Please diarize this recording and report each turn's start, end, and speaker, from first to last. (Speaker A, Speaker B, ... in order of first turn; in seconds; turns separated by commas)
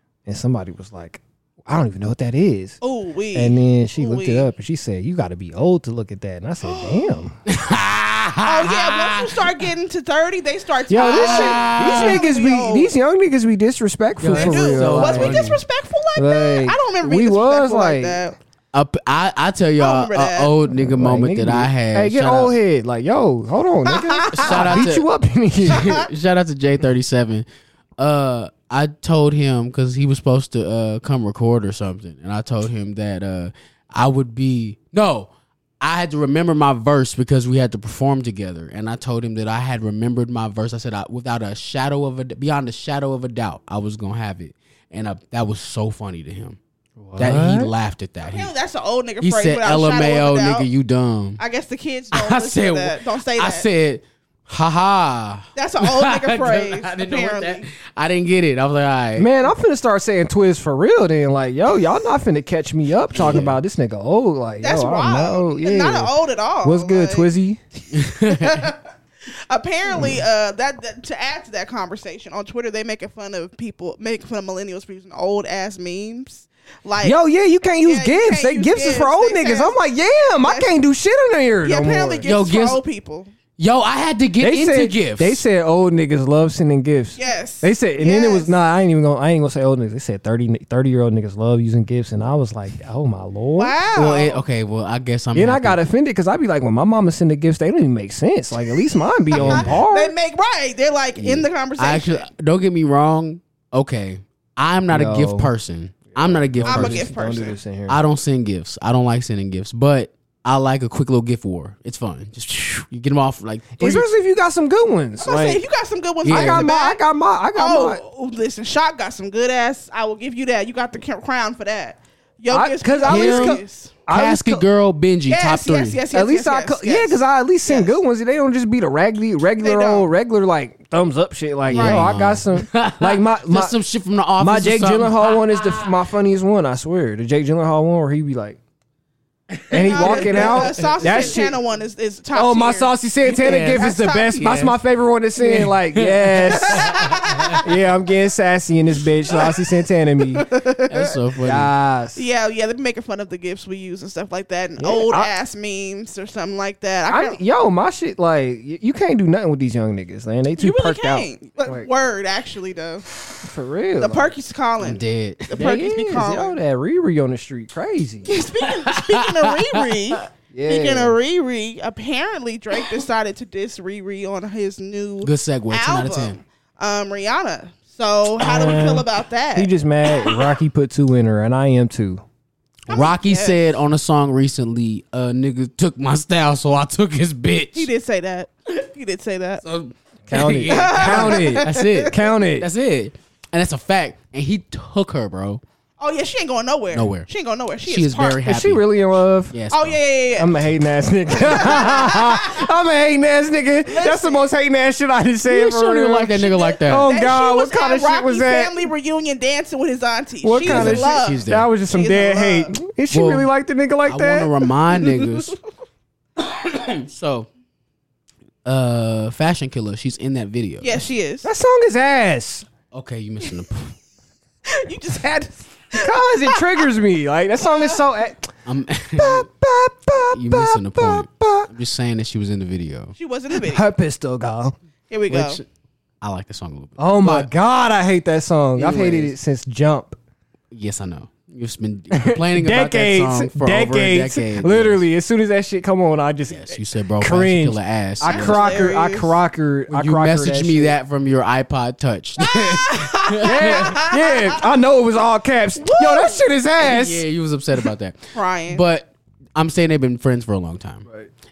Speaker A: 0.2-2.8, Speaker B: 2.8-4.5, Speaker A: 3.3-7.4, Speaker B: 6.6-7.2, Speaker C: 7.5-9.5, Speaker B: 8.4-12.9, Speaker A: 10.9-15.5, Speaker C: 11.0-12.2, Speaker C: 14.2-15.6, Speaker B: 14.3-18.4, Speaker A: 16.1-18.2, Speaker C: 18.7-22.6, Speaker B: 19.8-20.5, Speaker A: 20.7-25.9, Speaker B: 23.9-24.9, Speaker C: 24.3-25.1, Speaker C: 25.6-27.4, Speaker B: 25.7-26.1, Speaker C: 28.0-35.3, Speaker C: 35.8-46.6, Speaker A: 47.0-47.7, Speaker C: 47.1-48.5, Speaker B: 48.2-50.7, Speaker C: 49.2-51.4, Speaker B: 51.4-53.7, Speaker C: 52.1-59.3, Speaker B: 55.5-57.7, Speaker A: 59.2-66.1, Speaker C: 63.1-63.6, Speaker B: 64.6-67.3, Speaker A: 66.6-67.6, Speaker C: 67.9-68.7, Speaker B: 68.1-68.8, Speaker B: 69.5-77.2, Speaker A: 69.9-70.2, Speaker A: 77.0-82.2, Speaker B: 77.8-79.8, Speaker B: 80.4-80.7, Speaker B: 81.6-83.3, Speaker C: 82.2-82.8, Speaker C: 83.6-85.4, Speaker A: 84.4-93.8, Speaker B: 87.2-88.5, Speaker B: 93.6-94.4, Speaker C: 93.9-95.8, Speaker A: 95.3-100.1, Speaker B: 99.3-102.3, Speaker C: 99.3-99.8, Speaker C: 101.2-107.1, Speaker A: 104.9-105.5, Speaker A: 106.1-108.0, Speaker B: 106.7-107.6, Speaker C: 107.9-114.1, Speaker A: 113.8-115.6, Speaker B: 115.2-117.0, Speaker C: 116.2-116.7, Speaker A: 116.3-118.0, Speaker B: 117.5-123.9, Speaker A: 122.5-124.6, Speaker C: 123.0-126.0, Speaker B: 125.3-128.0, Speaker A: 126.1-133.7, Speaker B: 129.6-130.1, Speaker C: 131.7-135.9, Speaker B: 131.7-132.1, Speaker A: 134.4-138.6, Speaker C: 139.5-141.4, Speaker A: 139.7-141.6, Speaker B: 139.8-144.4, Speaker A: 142.3-150.5, Speaker C: 143.2-144.8, Speaker C: 145.4-147.6, Speaker B: 146.5-147.6, Speaker B: 149.3-149.7, Speaker B: 150.3-151.0, Speaker C: 150.9-151.7, Speaker A: 151.4-152.2, Speaker B: 152.1-157.4, Speaker A: 154.8-155.3, Speaker A: 157.1-161.9, Speaker B: 160.6-163.1, Speaker A: 163.4-164.3, Speaker B: 164.0-166.6, Speaker C: 164.8-165.7, Speaker A: 165.5-168.3, Speaker B: 168.2-180.5, Speaker C: 168.6-170.2, Speaker A: 170.5-171.2, Speaker C: 175.2-176.4, Speaker A: 178.4-182.2, Speaker B: 182.9-183.7, Speaker C: 182.9-187.9, Speaker B: 187.7-189.6, Speaker C: 189.6-195.6, Speaker A: 190.3-192.7, Speaker B: 190.7-192.1, Speaker B: 196.0-198.4, Speaker C: 196.9-197.3, Speaker C: 197.8-200.0, Speaker A: 198.4-199.5, Speaker B: 199.7-200.6, Speaker A: 200.3-208.9, Speaker B: 201.3-202.7, Speaker B: 203.8-204.5, Speaker C: 205.4-207.1, Speaker B: 206.3-212.7, Speaker A: 210.4-214.6, Speaker C: 210.6-211.7, Speaker C: 213.1-213.5, Speaker C: 214.1-215.5, Speaker C: 216.4-217.5, Speaker C: 218.6-221.0, Speaker B: 220.8-221.4, Speaker A: 221.4-222.7, Speaker C: 222.9-223.9, Speaker B: 224.7-226.8, Speaker A: 225.9-228.5, Speaker B: 227.6-228.0, Speaker C: 228.7-229.5, Speaker A: 229.2-231.7, Speaker C: 230.3-233.1, Speaker B: 233.2-233.9, Speaker A: 233.5-234.8, Speaker B: 235.1-235.6, Speaker C: 235.3-235.7, Speaker C: 236.2-237.5, Speaker A: 237.0-240.2, Speaker C: 238.8-239.3, Speaker C: 240.7-245.0, Speaker A: 242.1-250.9, Speaker C: 246.5-248.8, Speaker B: 248.2-249.4, Speaker C: 249.9-253.9, Speaker B: 252.4-254.6, Speaker A: 253.4-257.2, Speaker B: 255.8-256.4, Speaker C: 256.8-261.0, Speaker B: 258.3-258.8